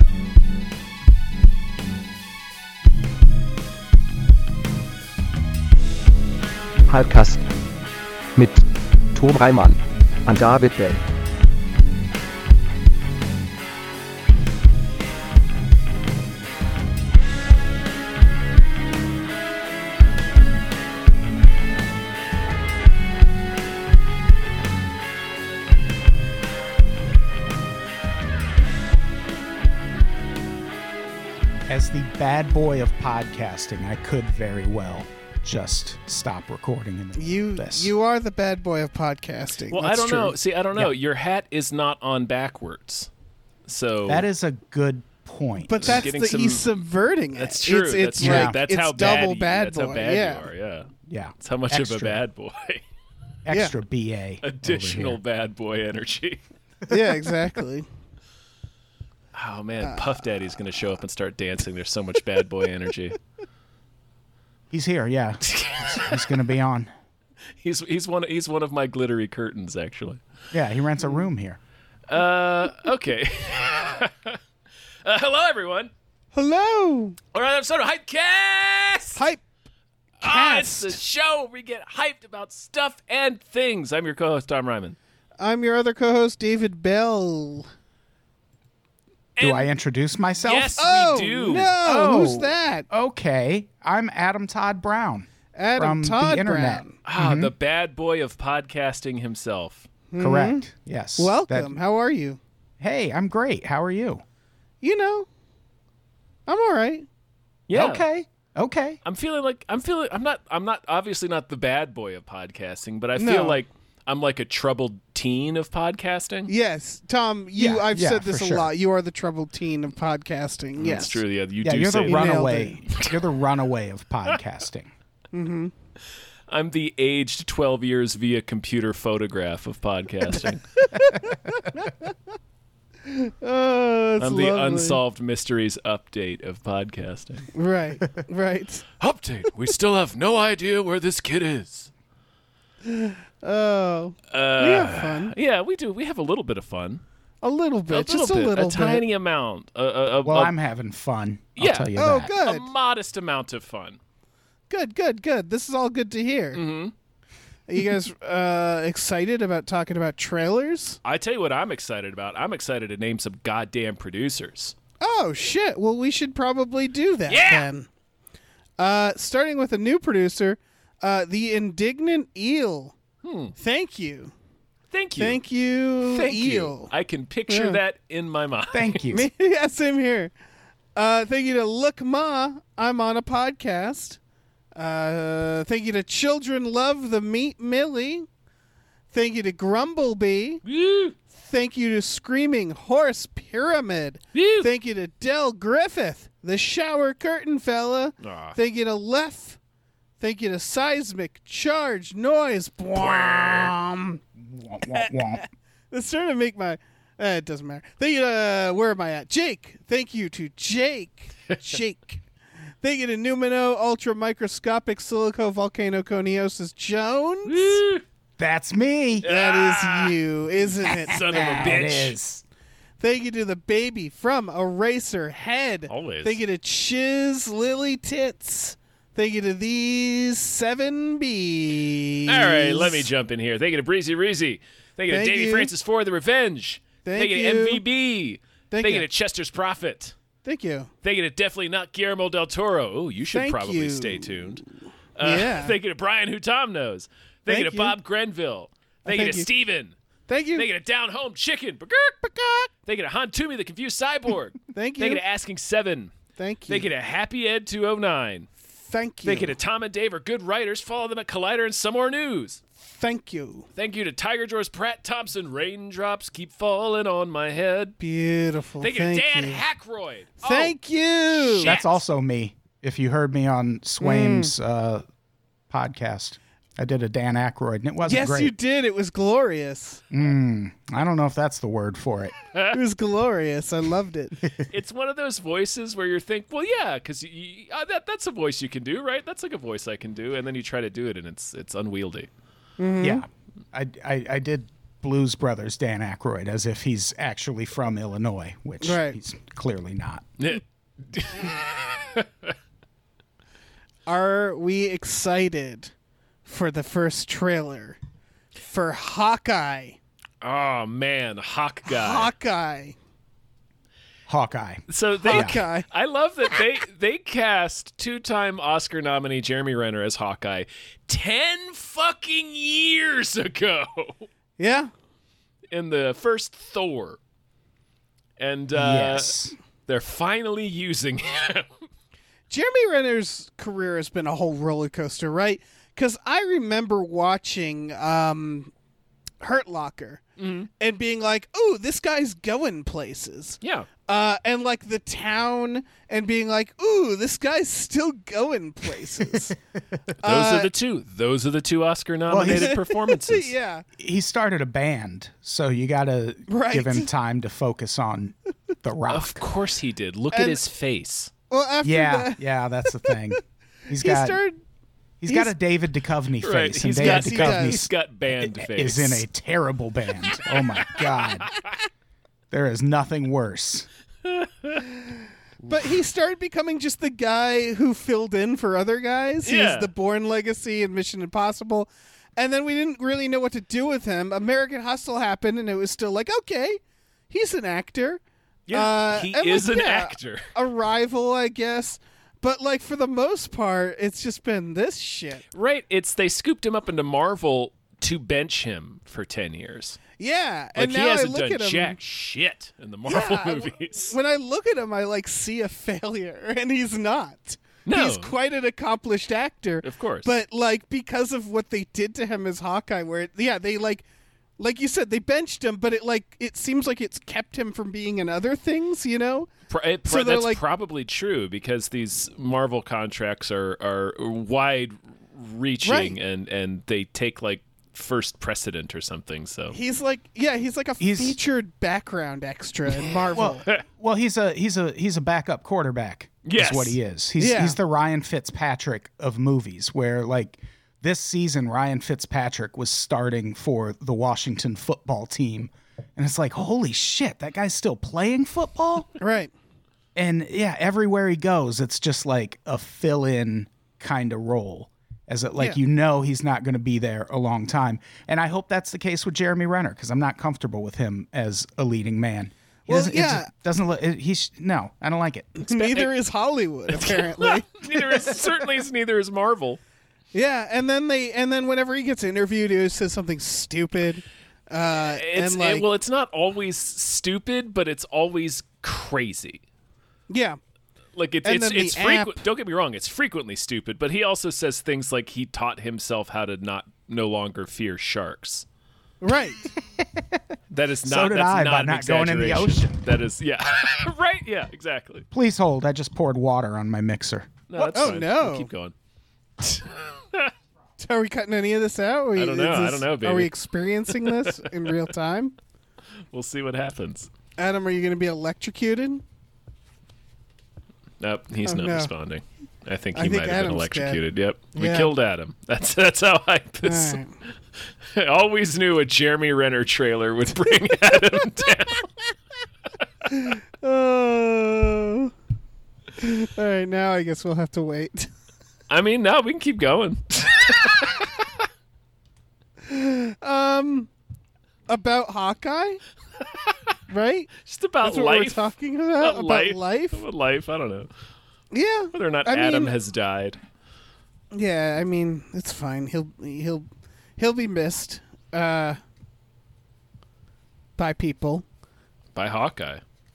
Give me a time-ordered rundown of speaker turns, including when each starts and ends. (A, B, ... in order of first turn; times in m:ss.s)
0:06.9-0:07.4 A
0:08.4-0:11.0 A
0:31.7-0:37.9 B
0:37.2-0:40.4 C
0:39.7-0:43.1 D
0:43.7-0:44.3 D
0:44.1-0:46.1 B
0:45.6-0:50.5 C
0:45.8-0:46.6 D
0:47.4-0:52.8 D
0:48.2-0:48.6 B
0:51.1-0:52.2 B
0:53.4-0:55.2 B
0:53.5-0:53.7 C
0:54.4-0:56.4 D
0:56.9-0:57.9 C
0:59.3-1:03.2 D
0:59.8-1:00.2 C
1:04.7-1:06.9 B
1:05.5-1:06.0 D
1:07.6-1:10.2 D
1:10.5-1:11.6 B
1:12.1-1:14.4 D
1:15.0-1:15.9 D
1:16.3-1:17.2 C
1:17.3-1:19.2 D
1:19.2-1:19.4 C
1:20.2-1:25.0 D
1:20.2-1:21.0 C
1:25.4-1:27.7 C
1:29.4-1:29.7 D
1:29.4-1:30.8 B
1:30.4-1:31.8 D
1:30.8-1:32.9 C
1:31.8-1:37.5 B
1:35.6-1:37.0 C
1:37.0-1:39.9 D
1:40.1-1:40.7 C
1:40.2-1:41.8 B
1:41.2-1:42.4 C
1:42.8-1:44.2 B
1:44.8-1:45.3 C
1:46.5-1:47.1 C
1:47.7-1:48.0 D
1:47.7-1:49.0 B
1:49.0-1:56.5 D
1:53.2-1:53.6 C
1:56.5-2:01.2 C
1:57.6-1:58.7 B
2:00.8-2:03.2 D
2:01.6-2:04.9 B
2:02.0-2:02.8 C
2:05.3-2:05.7 C
2:06.5-2:10.7 D
2:10.9-2:12.1 C
2:13.0-2:15.0 C
2:14.2-2:17.5 D
2:17.5-2:18.8 C
2:19.0-2:21.9 D
2:22.8-2:25.3 C
2:24.3-2:27.0 D
2:27.4-2:29.0 C
2:27.9-2:30.6 D
2:30.2-2:32.4 B
2:31.6-2:34.0 D
2:32.0-2:32.7 C
2:34.7-2:36.6 C
2:36.5-2:36.9 D
2:37.7-2:41.0 C
2:41.0-2:44.8 D
2:45.0-2:47.9 C
2:47.3-2:47.7 D
2:48.8-2:53.0 C
2:53.2-2:53.5 D
2:53.6-2:54.3 C
2:54.9-2:55.4 D
2:55.2-2:56.9 C
2:56.1-2:59.0 D
2:57.5-2:57.8 C
2:58.7-2:59.3 B
2:59.1-3:00.3 C
3:01.0-3:04.2 C
3:04.8-3:08.3 C
3:09.1-3:10.6 C
3:10.6-3:11.2 D
3:11.3-3:19.6 C
3:14.3-3:14.7 D
3:18.2-3:18.6 D
3:20.2-3:24.2 C
3:23.0-3:23.8 D
3:24.4-3:25.4 B
3:24.9-3:32.2 C
3:32.8-3:37.8 C
3:37.4-3:38.0 D
3:38.4-3:39.3 B
3:39.2-3:40.2 D
3:39.2-3:41.9 C
3:40.7-3:42.2 D
3:40.9-3:42.4 B
3:43.0-3:53.1 C
3:45.9-3:46.4 D
3:52.3-4:00.2 D
3:55.1-3:55.7 C
3:57.0-3:57.8 C
3:58.7-3:59.1 C
4:00.4-4:00.9 C
4:01.0-4:04.6 D
4:03.3-4:04.7 C
4:05.2-4:10.0 D
4:05.2-4:05.8 C
4:07.5-4:08.0 C
4:09.1-4:09.5 C
4:10.3-4:10.7 C
4:10.6-4:16.1 D
4:14.7-4:15.2 C
4:16.4-4:16.9 C
4:16.7-4:18.5 D
4:18.7-4:19.6 C
4:19.2-4:22.6 D
4:22.8-4:23.7 C
4:23.8-4:28.0 D
4:28.0-4:29.6 C
4:28.8-4:30.8 D
4:30.4-4:31.8 C
4:31.3-4:32.0 D
4:31.6-4:35.0 B
4:34.0-4:34.5 C
4:35.7-4:38.5 B
4:38.0-4:40.0 C
4:40.1-4:42.3 B
4:42.7-4:44.4 C
4:44.7-4:52.3 D
4:52.8-4:53.2 C
4:53.0-5:00.3 B
4:58.8-4:59.2 C
5:00.4-5:02.5 D
5:04.1-5:05.9 C
5:06.5-5:08.0 C
5:08.6-5:10.0 C
5:10.4-5:12.3 D
5:11.9-5:13.0 C
5:14.3-5:15.6 B
5:14.9-5:24.3 D
5:15.2-5:15.9 C
5:24.6-5:24.9 C
5:25.7-5:27.2 D
5:28.4-5:29.4 D
5:28.7-5:29.6 B
5:29.9-5:31.7 D
5:32.5-5:38.7 C
5:39.4-5:40.2 C
5:40.4-5:40.7 D
5:40.8-5:49.6 C
5:43.6-5:43.9 D
5:50.2-5:53.5 D
5:50.2-5:50.7 C
5:52.3-5:52.7 B
5:52.4-5:53.8 C
5:54.0-5:59.4 B
5:56.5-5:57.1 C
5:59.1-6:01.3 D
6:00.3-6:00.6 C
6:01.5-6:03.4 C
6:01.8-6:04.4 B
6:03.9-6:04.6 C
6:05.2-6:11.5 B
6:05.3-6:05.5 C
6:06.4-6:09.2 D
6:07.0-6:07.9 C
6:10.8-6:11.6 D
6:12.5-6:13.9 B
6:14.2-6:14.8 D
6:15.7-6:26.8 C
6:19.4-6:19.9 D
6:27.3-6:28.2 C
6:28.7-6:30.5 D
6:28.7-6:35.4 C
6:35.5-6:40.0 D
6:40.2-6:42.0 C
6:40.8-6:44.2 D
6:43.1-6:54.0 C
6:47.9-6:48.3 D
6:49.8-6:50.3 D
6:54.6-6:59.5 C
6:59.7-7:09.8 D
7:00.1-7:00.6 C
7:05.8-7:06.2 C
7:09.7-7:13.6 C
7:11.0-7:11.4 B
7:13.0-7:13.8 D
7:13.3-7:29.1 B
7:16.4-7:17.0 D
7:17.4-7:17.8 C
7:29.2-7:29.5 C
7:30.2-7:45.7 B
7:42.9-7:43.5 C
7:45.6-7:47.8 C
7:45.8-7:46.1 D
7:47.0-7:49.8 D
7:50.3-7:55.9 C
7:55.1-7:59.6 D
8:00.3-8:00.6 C
8:01.2-8:08.7 D
8:01.4-8:02.4 C
8:09.2-8:09.7 C
8:10.0-8:10.4 B
8:10.7-8:15.3 D
8:11.0-8:13.0 B
8:15.3-8:17.5 B
8:17.7-8:18.9 D
8:17.8-8:18.7 C
8:19.6-8:20.5 D
8:21.0-8:25.6 C
8:22.4-8:23.5 D
8:24.1-8:24.9 D
8:26.3-8:27.3 D
8:27.6-8:29.2 C
8:31.2-8:37.2 D
8:31.6-8:32.1 C
8:33.2-8:34.2 C
8:34.7-8:35.1 C
8:36.8-8:37.3 C
8:38.1-8:42.1 D
8:43.3-8:45.3 C
8:46.2-8:48.3 C
8:48.9-8:51.6 D
8:52.9-8:54.1 C
8:54.9-8:56.0 C
8:56.5-8:56.8 D
8:57.1-9:00.2 C
8:57.6-9:01.1 D
9:01.7-9:02.9 C
9:02.1-9:03.6 D
9:04.5-9:06.9 C
9:07.4-9:09.0 C
9:11.0-9:11.6 C
9:12.4-9:13.0 D